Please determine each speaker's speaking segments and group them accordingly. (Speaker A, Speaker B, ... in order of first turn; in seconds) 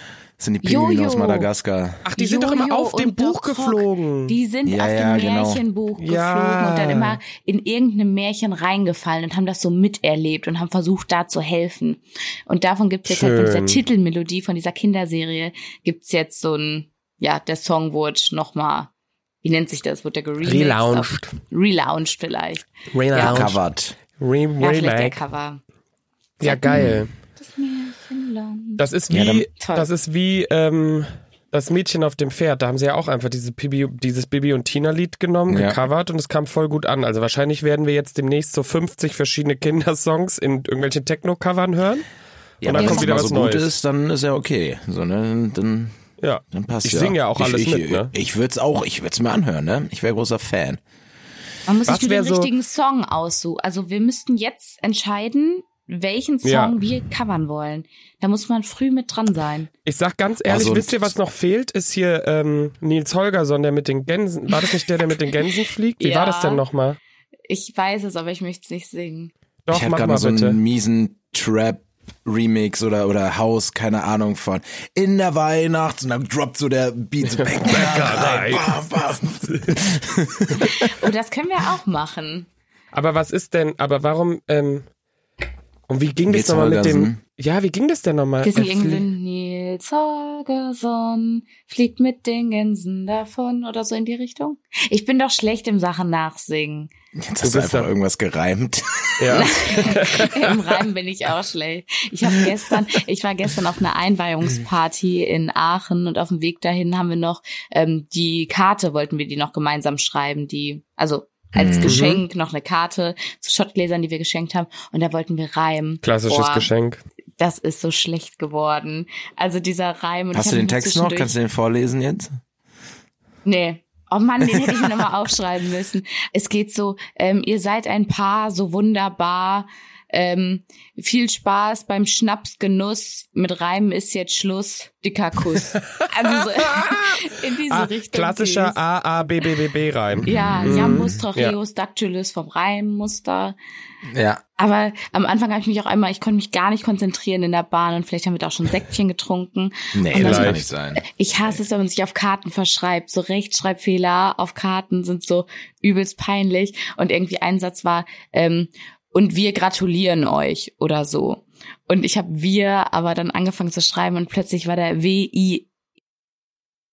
Speaker A: 0.4-2.1, 4.7-5.6, 23.1-24.0, 26.7-27.1, 29.1-29.5, 35.5-35.8, 42.6-46.0, 46.5-50.8, 60.5-61.1, 69.7-80.9, 86.3-87.2, 97.2-99.5, 111.5-112.0, 120.3-122.4, 140.1-141.2, 144.1-144.4, 149.9-151.0
Speaker B: 0.6-1.5, 2.2-18.9, 19.4-23.5, 24.6-25.6, 26.4-28.9, 29.6-29.9, 42.7-43.1, 51.7-59.7, 66.0-66.6, 67.5-69.3, 80.6-82.5, 88.4-96.9, 99.3-116.7, 117.4-121.3, 123.5-138.8, 140.3-143.6, 144.6-165.7
Speaker C: 2.1-4.3, 6.0-7.2, 13.1-13.8, 20.4-21.3, 22.9-23.6, 24.2-25.2, 26.4-27.1, 28.8-42.1, 42.6-43.7, 46.2-48.1, 51.9-52.5, 56.4-56.8, 59.9-67.0, 69.7-70.6, 77.4-78.8, 79.5-79.8, 82.9-84.9, 85.9-89.1, 97.4-97.9, 99.2-100.8, 111.8-112.2, 116.0-117.0, 136.0-141.6, 150.1-150.7